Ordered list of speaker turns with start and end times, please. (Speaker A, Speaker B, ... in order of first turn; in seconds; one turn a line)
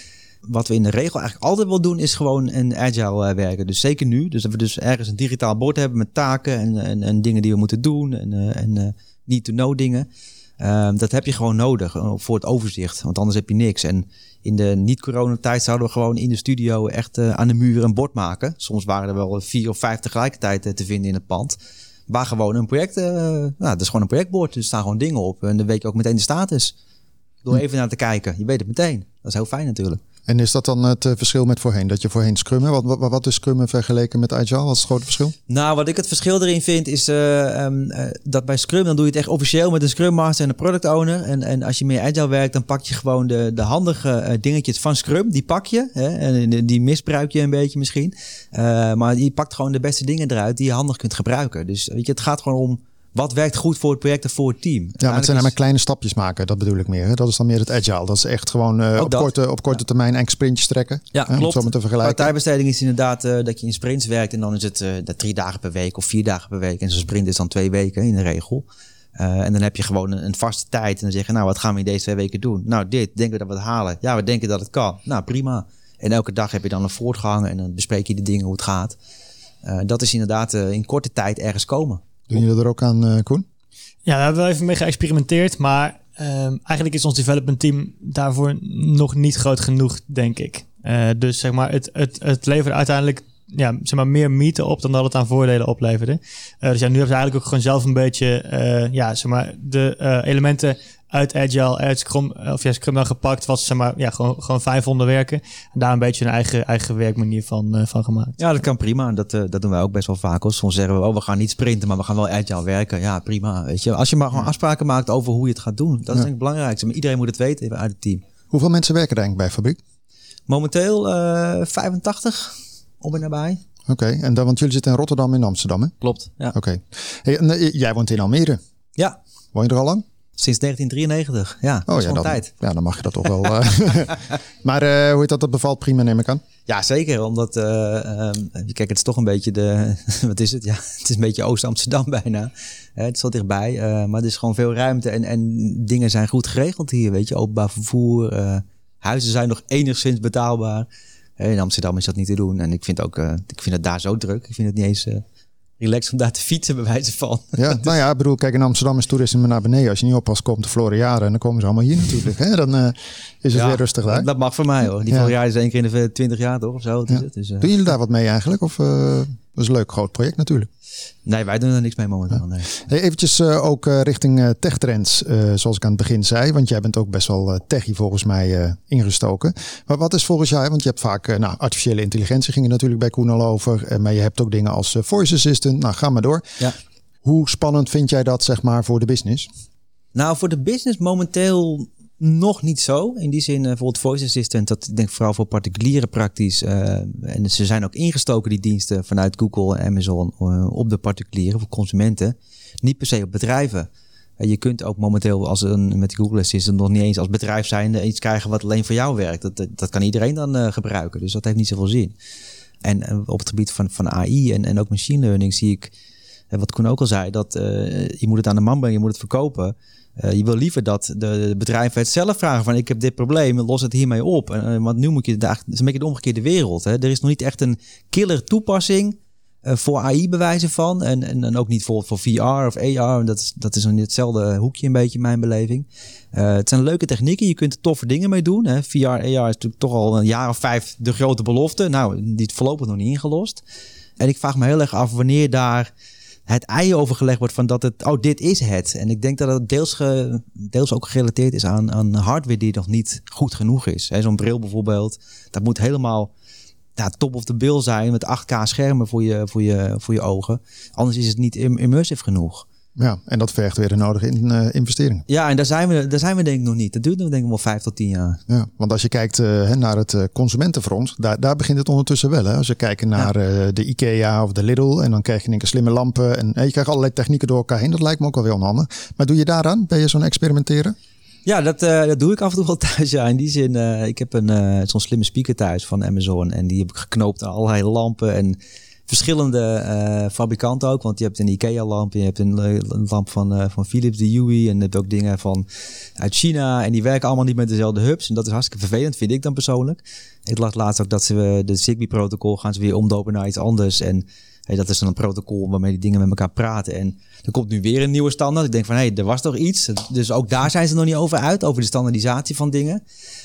Speaker A: 0.5-10.1
Speaker A: 10.6-21.6
Speaker A: 22.1-26.7
Speaker A: 27.4-30.0
Speaker B: 30.3-35.3
Speaker A: 35.5-55.5
Speaker B: 55.0-62.3
Speaker A: 59.0-59.3
Speaker A: 61.1-79.0
Speaker A: 79.6-82.0
Speaker B: 82.3-83.5
Speaker C: 84.1-108.4
Speaker A: 108.4-118.2
Speaker B: 118.5-119.8
Speaker A: 120.5-123.6
Speaker B: 123.9-125.9
Speaker A: 126.0-126.5
Speaker B: 126.5-128.6
Speaker B: 129.5-130.1
Speaker A: 130.4-132.5
Speaker B: 131.9-136.4
Speaker A: 133.4-134.2
Speaker A: 136.7-150.9
Speaker A: 151.4-155.2
Speaker A: 155.8-157.9
Speaker B: 157.6-164.3
Speaker A: 163.5-167.8
Speaker B: 167.1-170.7
Speaker A: 171.3-172.8
Speaker B: 172.9-186.4
Speaker B: 187.2-189.5
Speaker A: 190.2-203.9
Speaker A: 204.4-212.1
Speaker A: 212.8-215.9
Speaker A: 216.5-243.6
Speaker A: 244.2-245.9
Speaker A: 246.5-256.3
Speaker A: 257.0-262.7
Speaker B: 263.0-265.2
Speaker A: 265.3-268.4
Speaker B: 268.5-281.0
Speaker A: 281.4-295.7
Speaker A: 296.2-313.0